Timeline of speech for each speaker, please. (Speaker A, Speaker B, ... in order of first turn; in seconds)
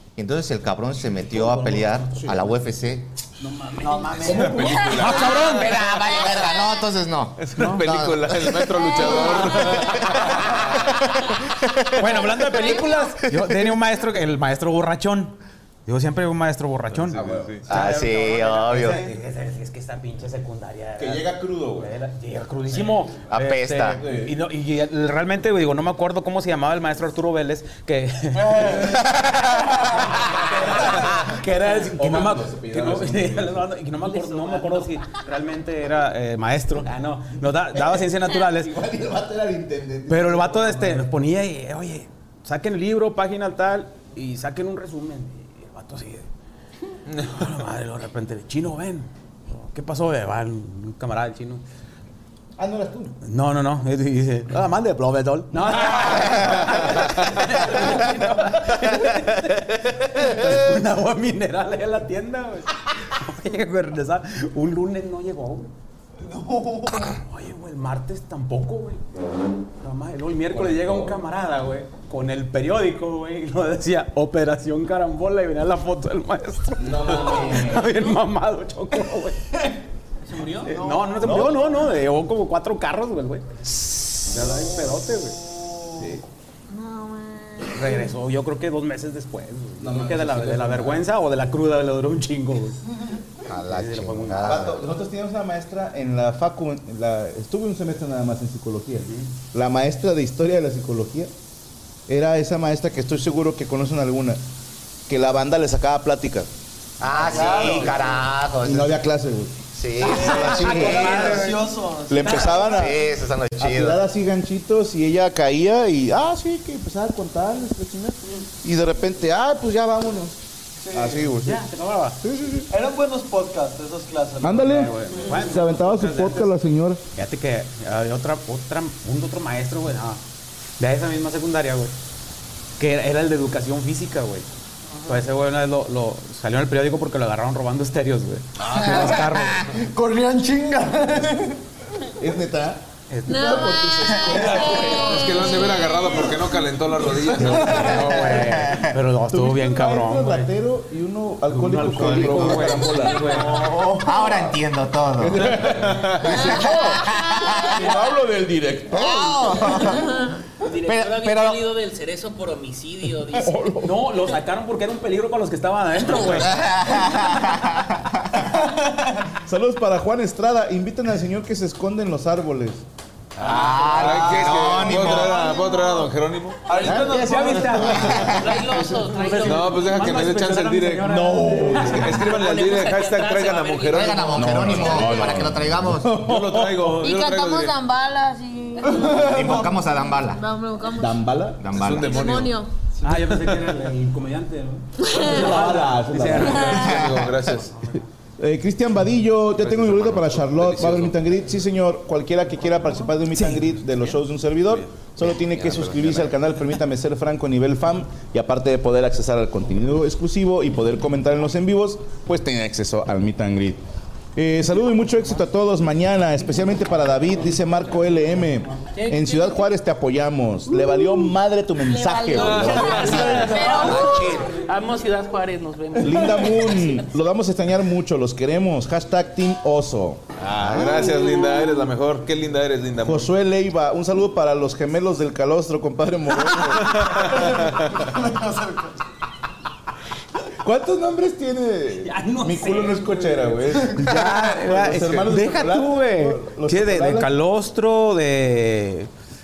Speaker A: 0.2-3.1, 5.0-10.9, 11.7-12.0, 17.7-19.0, 23.3-24.0, 93.5-94.8, 107.0-109.0, 109.7-111.3, 112.7-114.0, 147.6-149.0, 152.0-157.9, 158.9-161.6, 166.3-168.0, 173.4-175.5, 183.9-186.1, 189.1-190.4, 191.6-192.5, 196.8-197.3
Speaker B: 1.3-2.4, 3.8-6.1, 12.0-38.7, 40.1-46.3, 47.2-51.6, 53.2-65.7, 67.1-69.0, 69.8-79.7, 80.7-83.6, 84.2-85.4, 87.7-92.8, 93.7-94.6, 110.0-112.9, 121.3-122.2, 124.7-126.5, 127.2-130.2, 130.8-131.9, 132.8-134.5, 135.1-139.7, 143.1-143.7, 147.6-150.5, 151.5-153.7, 163.8-166.8, 176.9-182.3, 193.0-196.9, 203.3-203.7, 242.0-249.1
Speaker C: 3.4-4.5, 34.0-35.2, 80.2-80.8, 160.6-163.6, 178.1-179.7, 182.2-184.4, 218.8-219.7, 223.0-227.1
Speaker D: 4.2-5.3, 17.1-17.5, 21.0-21.9, 23.9-24.4, 30.5-33.7, 38.5-41.1, 52.6-53.2, 70.5-71.2, 76.8-77.9, 81.2-81.6, 86.0-86.2, 89.8-91.1, 94.4-101.3, 102.1-104.4, 105.1-106.5, 107.3-108.0, 108.6-109.6, 110.4-111.4, 112.1-113.0, 113.6-120.4, 120.9-121.6, 122.2-122.7, 124.4-127.0, 142.2-145.6, 149.3-154.6, 155.2-160.1, 163.3-164.1, 169.4-172.8, 176.8-178.9, 181.1-182.4, 184.3-186.9, 189.2-189.6, 190.9-191.6, 195.1-197.1, 198.4-213.8, 214.4-224.5, 226.0-231.2, 233.0-237.7, 240.6-247.3
Speaker E: 4.3-5.3, 7.4-10.6, 17.0-17.7, 144.9-148.2, 173.4-176.7, 179.4-185.1, 186.1-187.8, 191.7-192.6, 193.3-193.6, 196.4-197.8, 199.6-201.2, 222.4-223.3, 230.4-233.3, 236.8-237.1
Speaker F: 28.4-28.9, 66.2-67.1, 80.7-81.3, 107.2-108.0, 110.0-112.7, 120.8-121.2, 122.7-125.2, 139.1-141.6, 168.8-169.1, 175.3-175.8, 176.7-178.0, 189.0-189.6, 237.4-238.9
Speaker G: 86.7-88.0, 143.3-146.7, 156.3-157.7, 159.8-160.4, 187.0-189.3, 190.3-191.2, 192.0-192.7, 195.0-195.4, 196.6-196.9, 221.8-224.4